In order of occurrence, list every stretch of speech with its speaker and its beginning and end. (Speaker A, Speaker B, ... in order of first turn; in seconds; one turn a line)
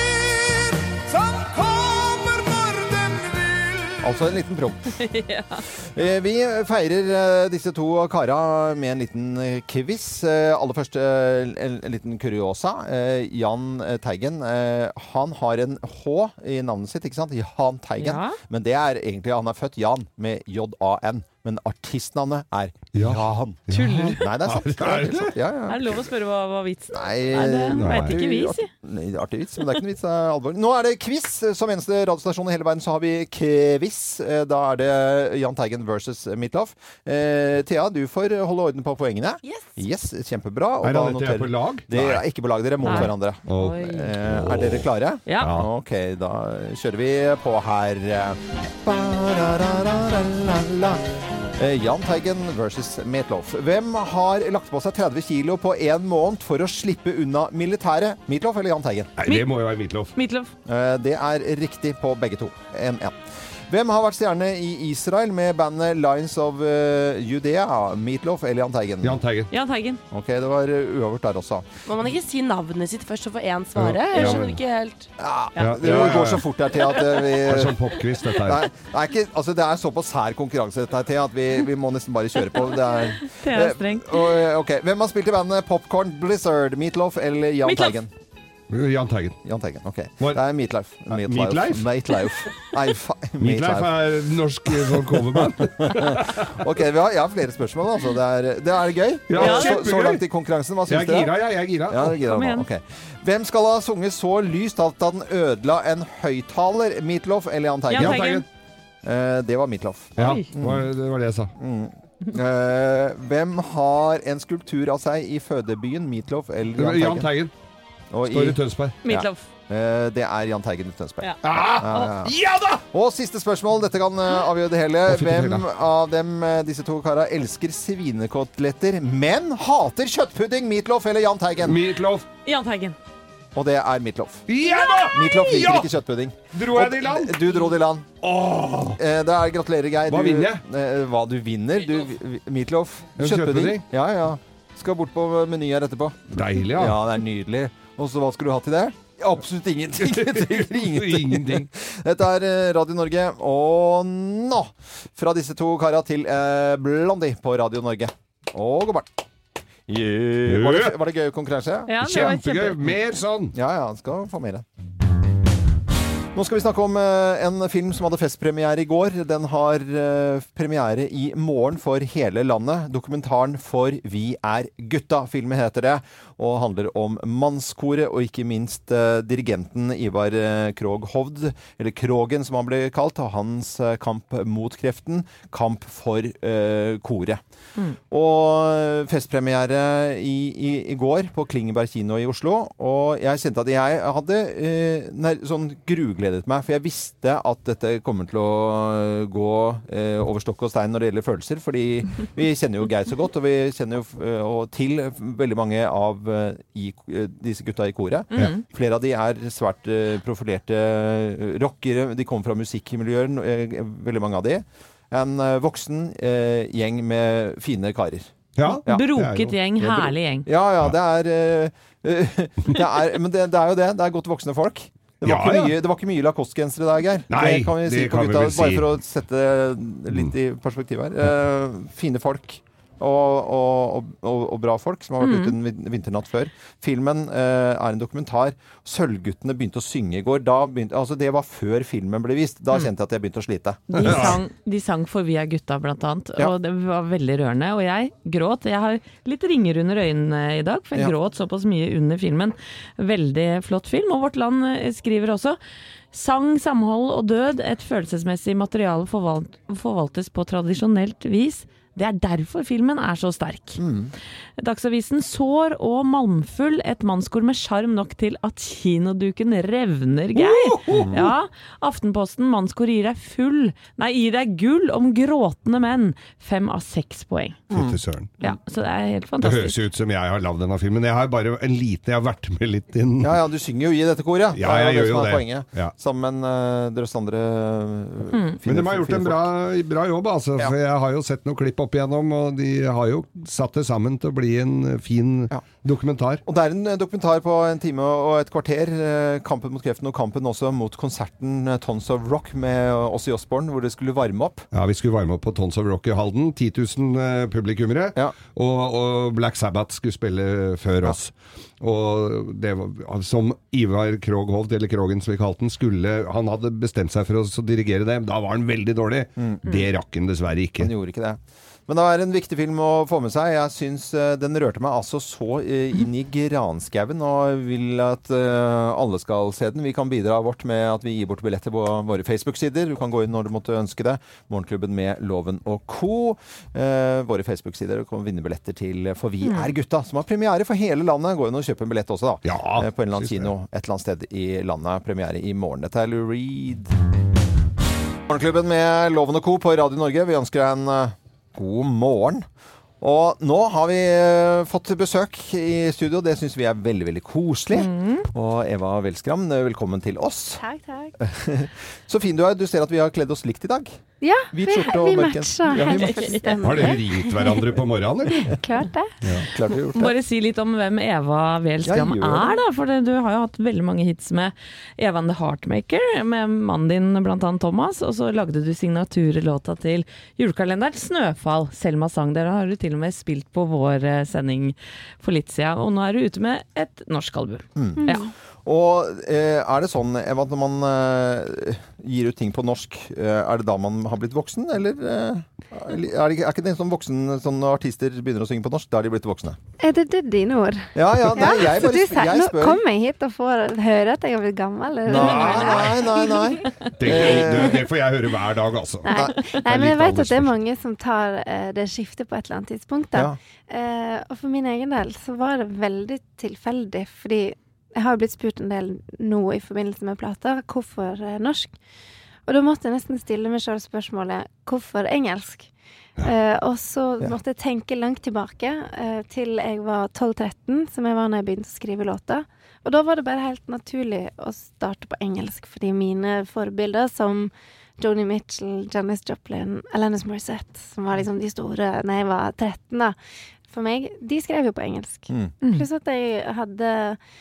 Speaker A: 4.0-5.0
Speaker B: 5.0-5.6
Speaker A: 5.9-23.6
Speaker B: 18.0-18.4
Speaker C: 22.9-25.4
Speaker B: 23.7-24.3
Speaker A: 24.1-26.0
Speaker B: 25.7-28.7
Speaker A: 26.9-59.1
Speaker C: 27.7-28.2
Speaker C: 40.8-42.2
Speaker B: 42.8-44.1
Speaker C: 42.9-45.7
Speaker B: 45.2-45.5
Speaker C: 59.2-60.1
Speaker B: 60.1-60.5
Speaker A: 60.6-69.2
Speaker C: 69.0-69.5
Speaker B: 69.5-70.0
Speaker A: 70.1-71.6
Speaker D: 71.8-75.1
Speaker C: 73.8-74.6
Speaker A: 75.2-88.1
Speaker C: 75.6-76.5
Speaker C: 77.4-78.7
Speaker B: 83.2-84.4
Speaker B: 87.6-88.0
Speaker C: 88.7-89.4
Speaker A: 89.4-94.0
Speaker C: 91.1-91.9
Speaker C: 93.4-96.6
Speaker A: 94.8-101.3
Speaker C: 99.3-100.2
Speaker B: 99.3-99.8
Speaker C: 100.9-102.2
Speaker A: 101.9-108.4
Speaker B: 102.2-102.7
Speaker B: 107.9-108.4
Speaker C: 107.9-108.4
Speaker A: 109.0-110.9
Speaker C: 110.2-111.5
Speaker B: 110.2-110.4
Speaker A: 111.5-117.3
Speaker C: 116.8-117.5
Speaker A: 118.1-122.3
Speaker C: 118.2-119.0
Speaker B: 119.0-119.5
Speaker C: 121.4-122.8
Speaker A: 122.9-131.8
Speaker C: 125.1-125.7
Speaker C: 131.6-132.2
Speaker B: 132.4-133.0
Speaker A: 133.5-134.5
Speaker C: 134.5-135.9
Speaker A: 135.1-138.1
Speaker C: 136.5-137.4
Speaker C: 138.2-139.0
Speaker A: 139.0-159.2
Speaker C: 140.1-140.6
Speaker C: 143.2-143.8
Speaker C: 146.3-147.0
Speaker C: 150.0-151.7
Speaker A: 159.9-162.3
Speaker C: 160.5-161.0
Speaker B: 161.9-162.8
Speaker C: 162.0-163.5
Speaker A: 163.5-164.6
Speaker A: 166.3-187.4
Speaker A: 188.1-218.3
Speaker C: 218.6-219.5
Speaker B: 218.6-220.5
Speaker A: 219.8-244.4
Speaker C: 225.2-225.7
Speaker C: 227.3-228.9
Speaker B: 235.2-235.6
Speaker B: 243.9-255.6
Speaker C: 244.0-244.4
Speaker B: 256.1-263.8
Speaker A: 263.8-264.1
Speaker B: 264.6-277.6
Speaker C: 270.3-271.1
Speaker A: 270.9-271.3
Speaker A: 277.7-278.0
Speaker C: 277.7-278.3
Speaker B: 278.4-279.8
Speaker C: 279.4-283.3
Speaker A: 283.2-289.5
Speaker C: 284.5-285.9
Speaker B: 288.3-288.6
Speaker C: 288.6-296.4
Speaker A: 296.4-304.7
Speaker C: 304.7-320.9
Speaker A: 319.4-319.6
Speaker A: 320.8-346.9
Speaker B: 339.4-339.7
Speaker C: 342.4-343.5
Speaker A: 348.3-352.4
Speaker A: 353.0-360.6
Speaker B: 357.7-358.3
Speaker E: 360.6-361.1
Speaker A: 361.2-364.0
Speaker E: 364.2-367.6
Speaker A: 364.5-366.4
Speaker B: 365.9-366.9
Speaker C: 366.6-368.6
Speaker E: 368.4-369.1
Speaker A: 369.3-370.1
Speaker B: 369.9-388.3
Speaker A: 371.8-372.6
Speaker A: 387.8-388.1
Speaker E: 388.0-388.3
Speaker A: 388.6-399.6
Speaker E: 399.8-406.7
Speaker A: 400.9-402.8
Speaker A: 405.1-407.9
Speaker C: 405.1-406.2
Speaker C: 406.9-410.6
Speaker E: 407.4-407.8
Speaker E: 409.0-421.7
Speaker A: 409.1-409.4
Speaker E: 422.4-443.1
Speaker E: 443.7-447.2
Speaker B: 445.6-445.9